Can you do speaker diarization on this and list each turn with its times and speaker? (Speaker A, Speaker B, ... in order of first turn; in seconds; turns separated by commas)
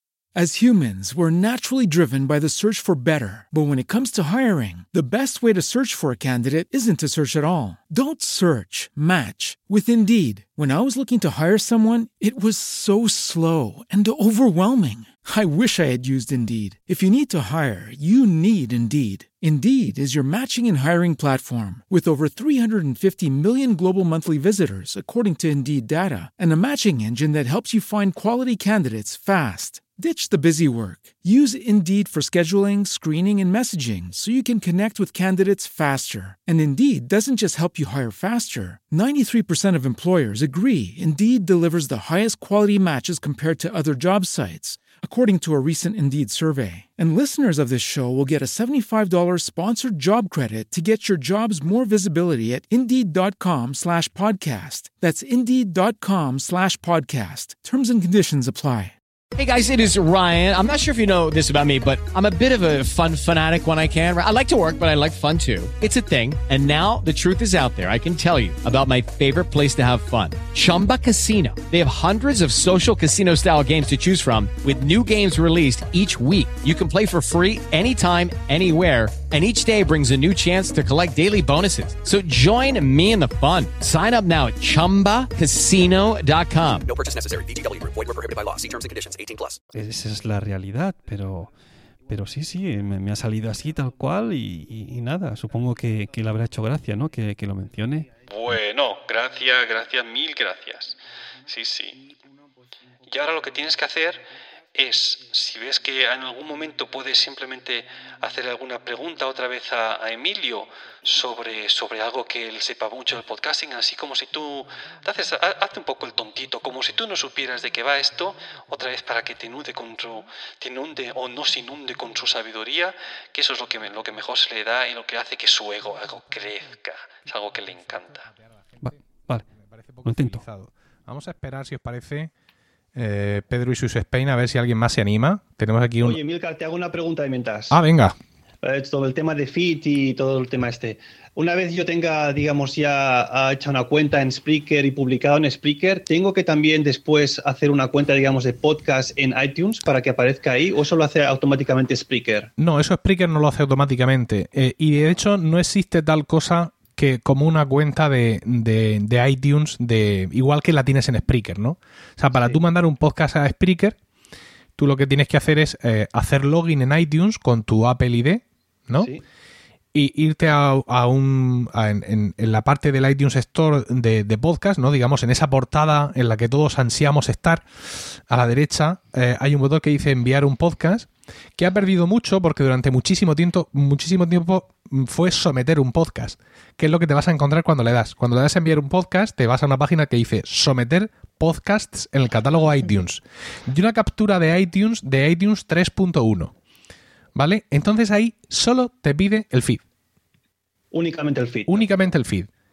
Speaker A: 0.3-58.9, Speaker B: 59.4-86.9, Speaker C: 86.8-89.6, Speaker D: 89.7-91.5, Speaker D: 92.1-98.1, Speaker E: 98.3-102.0, Speaker E: 103.1-128.3, Speaker D: 128.8-129.5, Speaker F: 129.7-132.3, Speaker D: 130.1-130.4, Speaker F: 132.9-136.2, Speaker G: 136.0-137.8, Speaker F: 137.7-138.2, Speaker G: 138.6-152.5, Speaker F: 152.6-164.0, Speaker G: 162.3-162.6, Speaker F: 164.8-169.1, Speaker G: 169.0-169.2, Speaker F: 169.9-196.5, Speaker F: 197.4-199.8, Speaker G: 200.9-201.9, Speaker F: 201.7-202.5